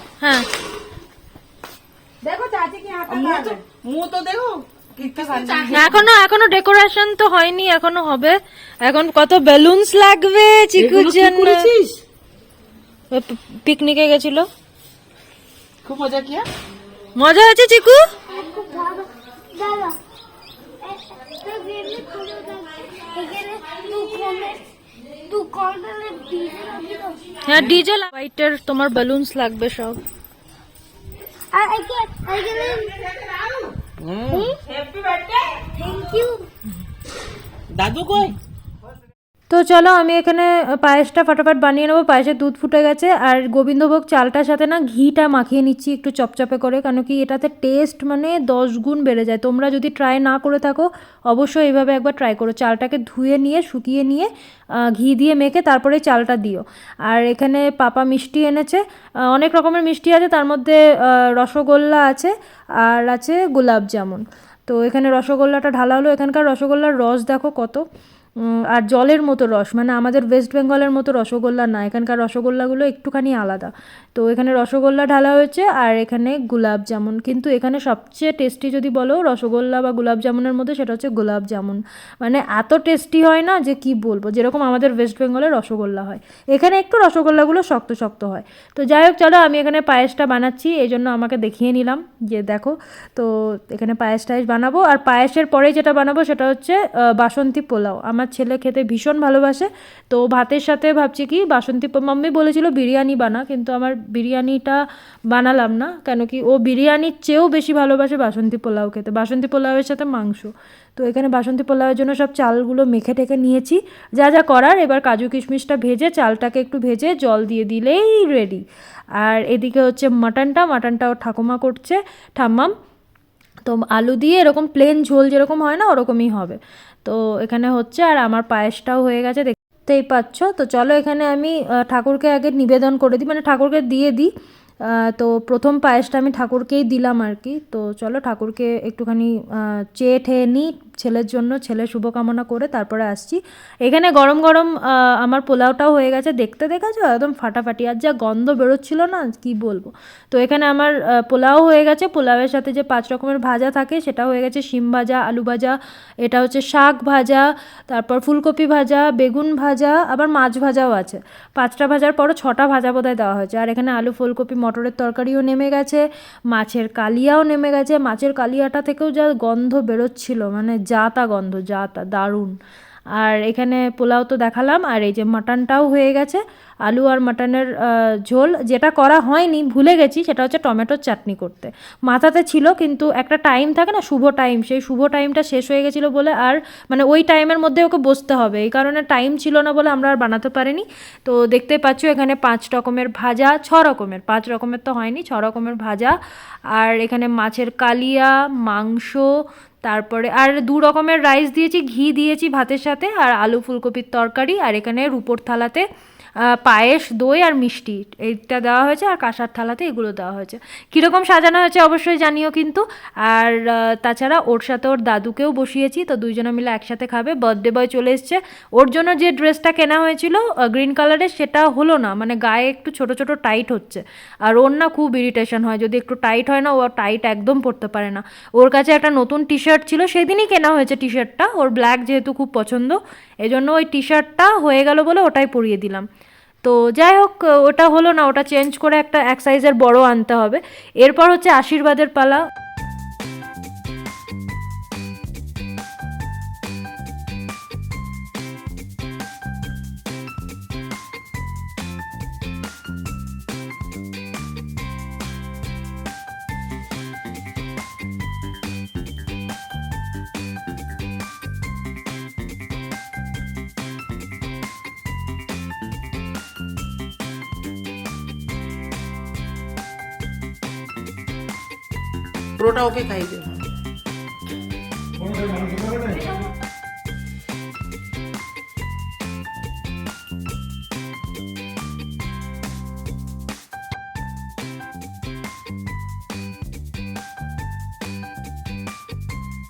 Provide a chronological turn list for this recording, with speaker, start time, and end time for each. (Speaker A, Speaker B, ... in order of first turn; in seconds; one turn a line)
Speaker A: 0.2-0.5
Speaker B: 2.2-3.6
Speaker C: 3.1-6.0
Speaker B: 5.0-5.8
Speaker A: 5.7-11.7
Speaker C: 10.8-12.0
Speaker A: 13.1-14.5
Speaker C: 15.8-16.5
Speaker A: 17.2-18.1
Speaker B: 18.3-20.0
Speaker B: 20.8-24.6
Speaker B: 25.3-27.2
Speaker A: 27.4-30.0
Speaker B: 31.5-33.0
Speaker C: 34.0-35.6
Speaker B: 34.3-34.6
Speaker B: 35.7-36.5
Speaker C: 37.7-38.4
Speaker A: 39.5-54.3
Speaker A: 54.9-62.3
Speaker A: 62.9-67.8
Speaker A: 68.7-104.8
Speaker A: 105.3-118.6
Speaker A: 119.2-122.7
Speaker A: 123.7-134.3
Speaker A: 135.0-172.6
Speaker A: 173.2-196.2
Speaker A: 196.7-199.3
Speaker A: 199.8-205.9
Speaker A: 206.5-236.1
Speaker A: 236.6-242.4
Speaker C: 272.6-273.5